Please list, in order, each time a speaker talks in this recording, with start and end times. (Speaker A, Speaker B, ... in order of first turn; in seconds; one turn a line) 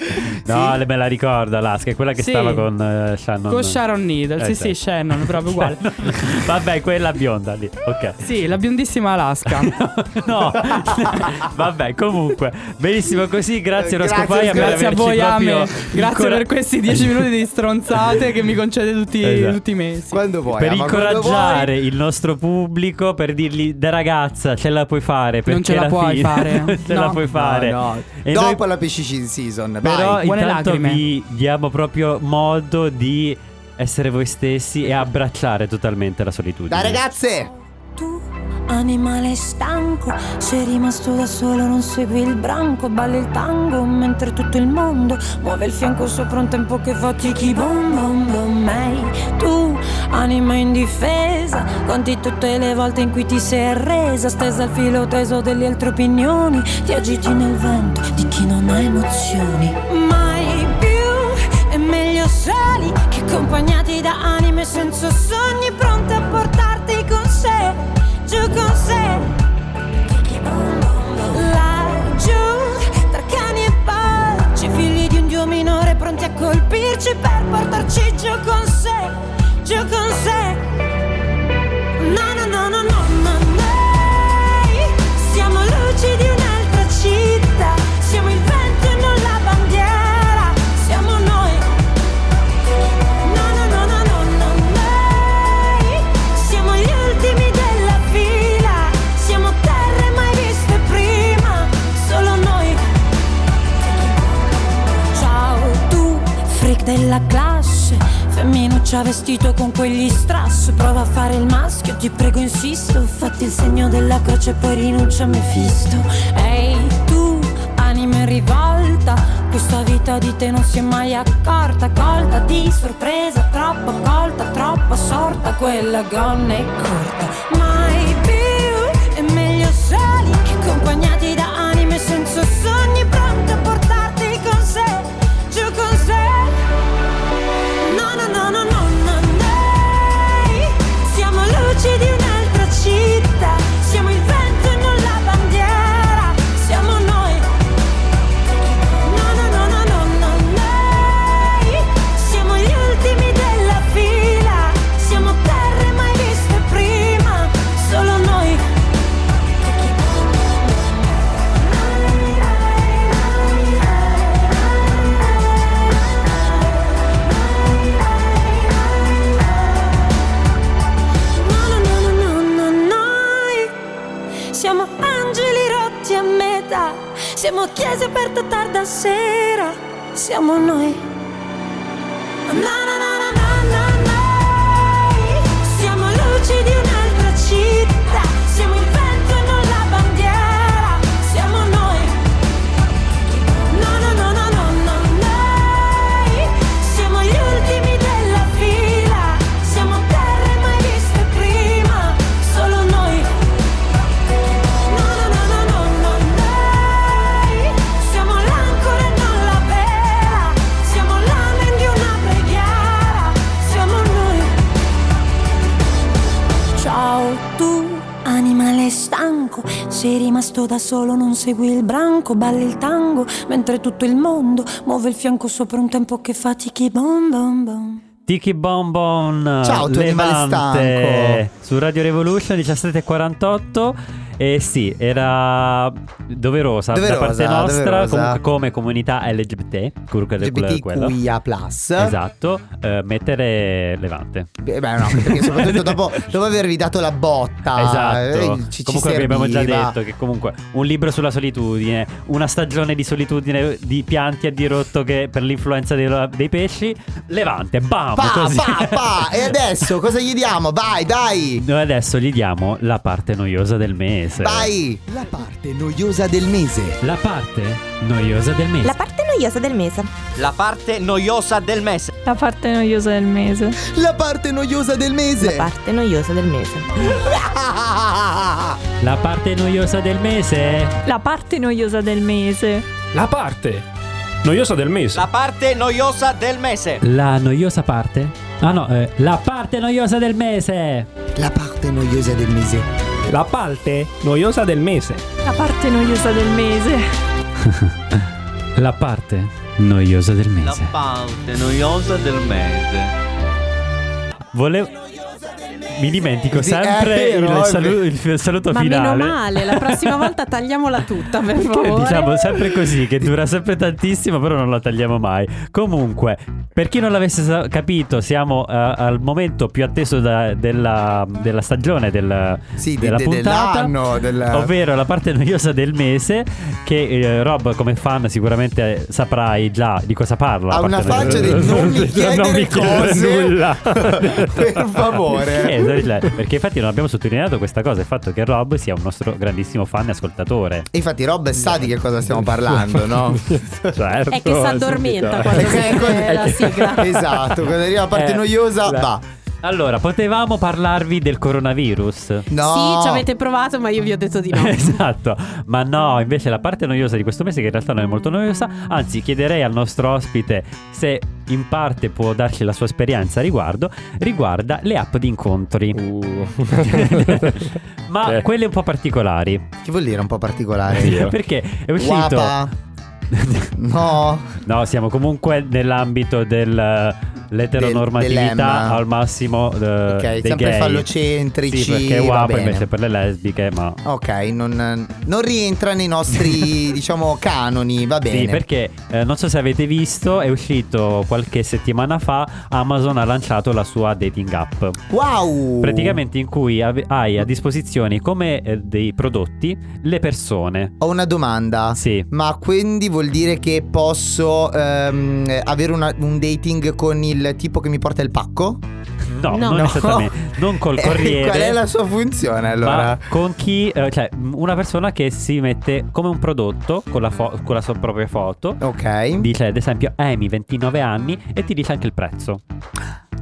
Speaker A: 0.2-3.8
Speaker B: 0.5-0.8
Speaker C: 2.2-2.7
Speaker C: 3.5-5.9
Speaker A: 4.4-8.2
Speaker C: 8.2-9.7
Speaker A: 9.5-17.1
Speaker B: 13.8-15.0
Speaker C: 14.4-20.2
Speaker A: 19.2-19.6
Speaker B: 20.1-21.7
Speaker A: 20.5-28.6
Speaker C: 25.5-27.2
Speaker B: 27.3-30.2
Speaker A: 29.8-37.0
Speaker C: 30.2-31.0
Speaker B: 36.7-37.5
Speaker D: 38.0-69.3
Speaker D: 70.1-80.6
Speaker D: 82.0-91.7
Speaker D: 93.2-102.8
Speaker D: 103.8-104.5
Speaker D: 105.1-136.6
Speaker D: 137.8-147.5
Speaker D: 148.8-158.6
Speaker D: 159.6-161.1
Speaker D: 161.7-166.4
Speaker D: 167.3-169.2
Speaker D: 171.4-173.7
Speaker D: 174.5-181.0
Speaker D: 182.5-192.2
Speaker D: 193.3-203.3
Speaker D: 204.7-214.5
Speaker D: 216.8-228.0
Speaker A: 228.3-241.2
Speaker B: 229.6-231.4
Speaker B: 236.9-238.4
Speaker B: 240.4-242.2
Speaker A: 242.0-244.5
Speaker B: 244.6-250.0
Speaker A: 245.1-246.1
Speaker A: 247.8-259.6
Speaker B: 258.2-261.6
Speaker A: 261.6-264.7
Speaker B: 264.4-267.0
Speaker A: 267.0-268.9
Speaker E: 268.8-270.1
Speaker F: 270.4-272.1
Speaker G: 272.2-273.8
Speaker B: 273.8-275.7
Speaker E: 275.4-276.9
Speaker B: 277.1-278.8
Speaker A: 279.0-280.9
Speaker G: 281.1-282.9
Speaker H: 283.1-283.8
Speaker H: 284.4-285.2
Speaker F: 285.1-287.0
Speaker A: 287.0-291.1
Speaker B: 291.4-292.9
Speaker H: 293.3-295.2
Speaker G: 295.5-297.0
Speaker A: 297.6-298.2
Speaker A: 298.8-300.9
Speaker F: 300.6-303.1
Speaker A: 304.5-305.0
Speaker A: 305.9-310.3
Speaker B: 306.5-308.0
Speaker I: 308.7-312.7
Speaker A: 311.6-323.9
Speaker B: 322.8-324.7
Speaker A: 324.5-334.7
Speaker B: 330.7-335.9
Speaker J: 331.4-331.9
Speaker A: 335.3-340.9
Speaker B: 340.9-343.5
Speaker J: 341.7-346.9
Speaker A: 344.0-344.9
Speaker I: 344.3-347.1
Speaker B: 345.5-349.2
Speaker J: 348.1-349.1
Speaker A: 349.6-352.5
Speaker B: 352.5-353.2
Speaker I: 352.6-354.9
Speaker A: 354.5-366.0
Speaker J: 365.9-367.7
Speaker A: 366.8-369.6
Speaker B: 369.8-371.3
Speaker A: 371.0-372.6
Speaker J: 371.0-371.3
Speaker B: 372.0-372.7
Speaker A: 373.3-373.7
Speaker B: 373.8-374.6
Speaker A: 374.6-381.1
Speaker B: 377.7-379.0
Speaker B: 380.1-382.9
Speaker A: 381.7-384.0
Speaker B: 384.1-388.6
Speaker A: 388.3-395.0
Speaker B: 395.1-396.2
Speaker A: 395.8-400.9
Speaker B: 401.0-408.8
Speaker A: 401.9-402.3
Speaker A: 409.3-411.8
Speaker B: 409.5-413.2
Speaker I: 409.5-409.9
Speaker A: 412.8-418.8
Speaker B: 418.8-419.5
Speaker A: 419.4-422.6